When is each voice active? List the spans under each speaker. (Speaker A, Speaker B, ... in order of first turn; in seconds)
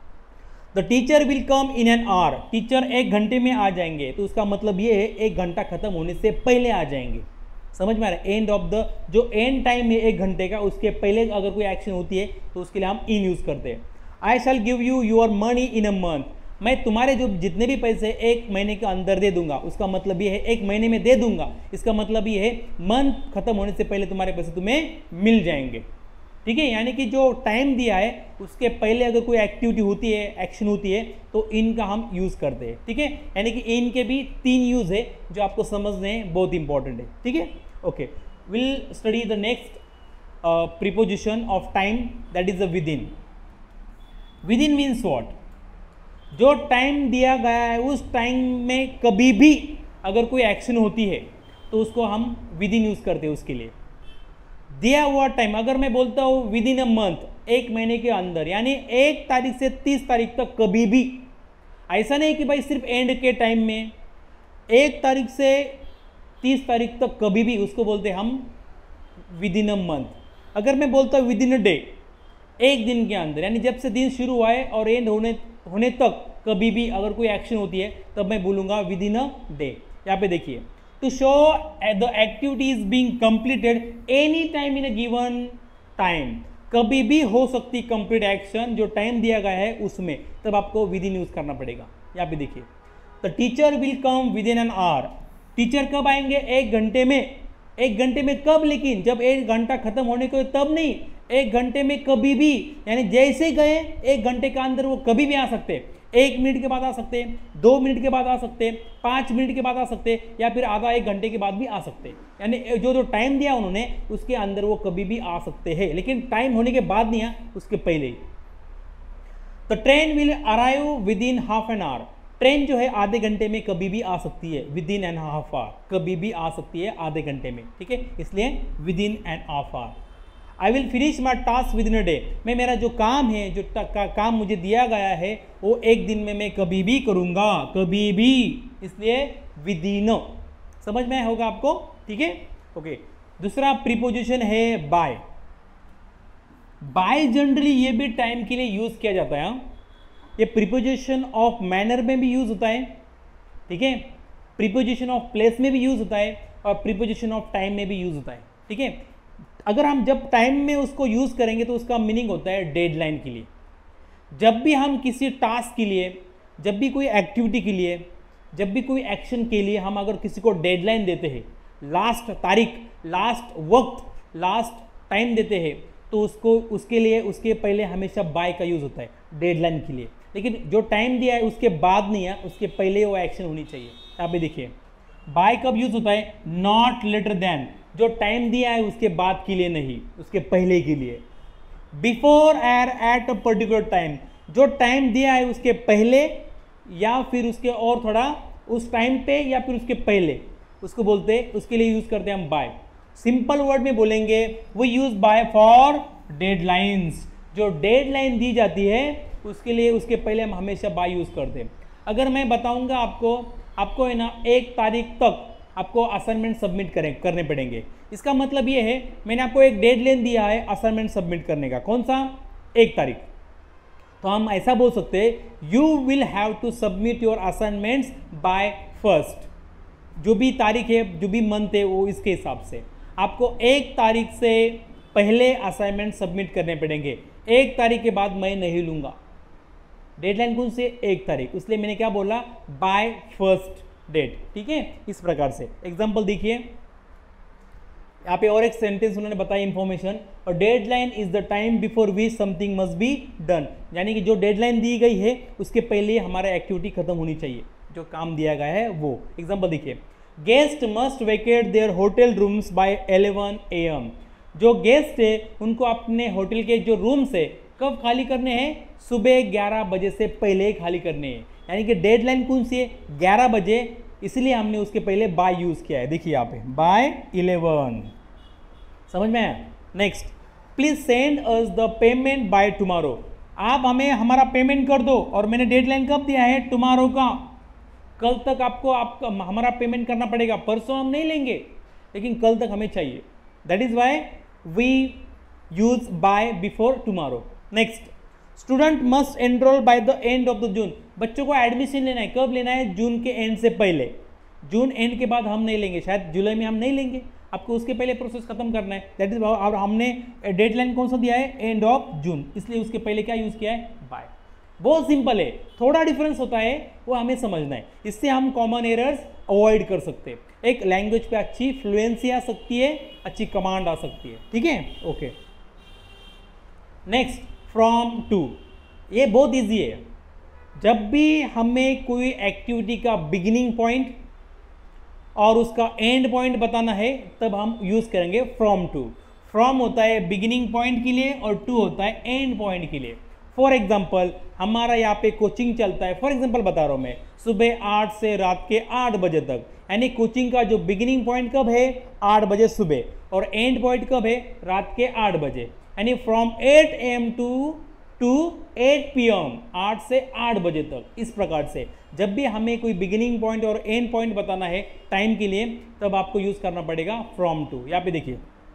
Speaker A: 0.7-25.9, 26.4-39.8, 40.4-43.1, 44.5-45.4, 46.3-53.7, 54.7-61.3, 61.9-63.9, 64.7-65.8, 66.4-68.5, 69.3-72.0, 72.6-92.7, 93.2-118.2, 119.7-130.0, 130.6-145.2, 146.8-149.7, 150.4-153.0, 153.7-159.0, 159.7-163.5, 164.3-184.7, 185.3-191.2, 191.9-223.3, 224.2-229.5, 230.2-239.2, 240.2-246.7, 248.2-278.1, 279.1-287.6, 288.2-325.4, 327.1-330.1, 330.8-334.1, 335.4-368.4